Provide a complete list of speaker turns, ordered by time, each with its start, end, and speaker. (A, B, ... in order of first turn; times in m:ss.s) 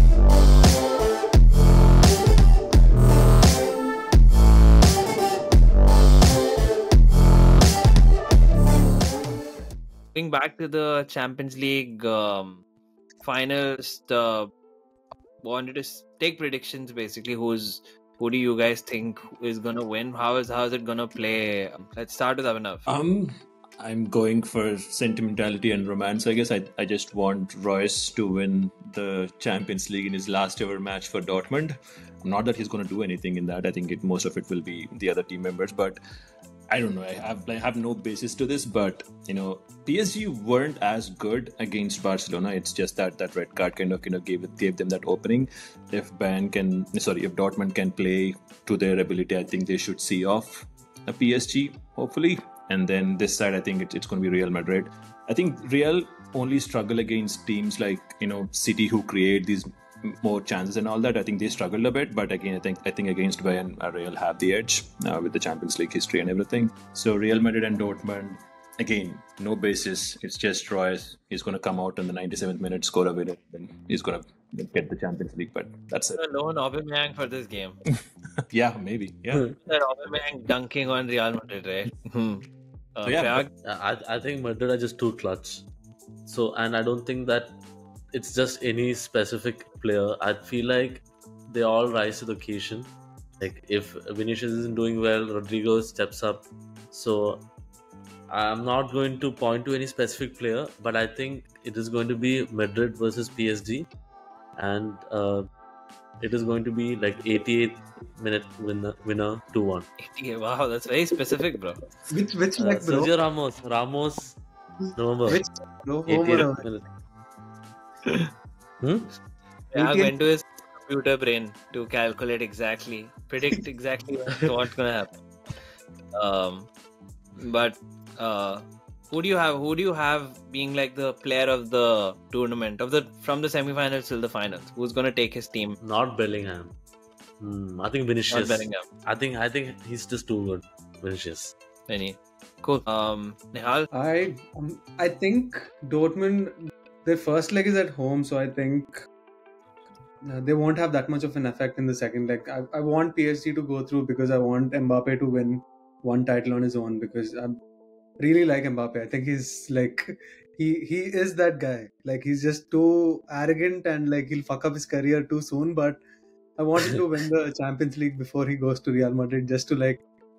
0:10.1-0:12.6 A
0:13.2-0:14.5 A
0:15.4-0:22.9 A
0:22.9-0:36.0 B
0:36.7-1:16.2 B
1:16.2-1:17.8 A
1:18.5-1:19.5 B
1:19.6-1:23.5 A
1:23.0-1:23.4 B
1:23.6-1:25.7 C
1:26.2-1:27.6 C
1:28.1-1:37.4 C
1:38.3-1:43.9 C
1:44.6-1:45.4 C
1:46.2-1:49.9 C
1:50.0-1:51.8 A
1:52.1-1:53.1 D
1:52.6-1:54.4 C
1:54.8-1:56.7 D
1:55.0-1:55.4 C
1:56.1-1:56.9 C
1:58.8-1:59.1 C
1:59.7-2:05.1 A
1:59.8-2:00.2 D
2:06.2-2:06.7 A
2:07.4-2:15.8 A
2:15.8-2:16.7 C
2:17.4-2:21.5 C
2:18.3-2:18.8 A
2:21.9-2:23.9 A
2:23.9-2:29.0 D
2:30.3-2:37.6 D
2:38.2-2:46.0 D
2:46.6-2:50.0 D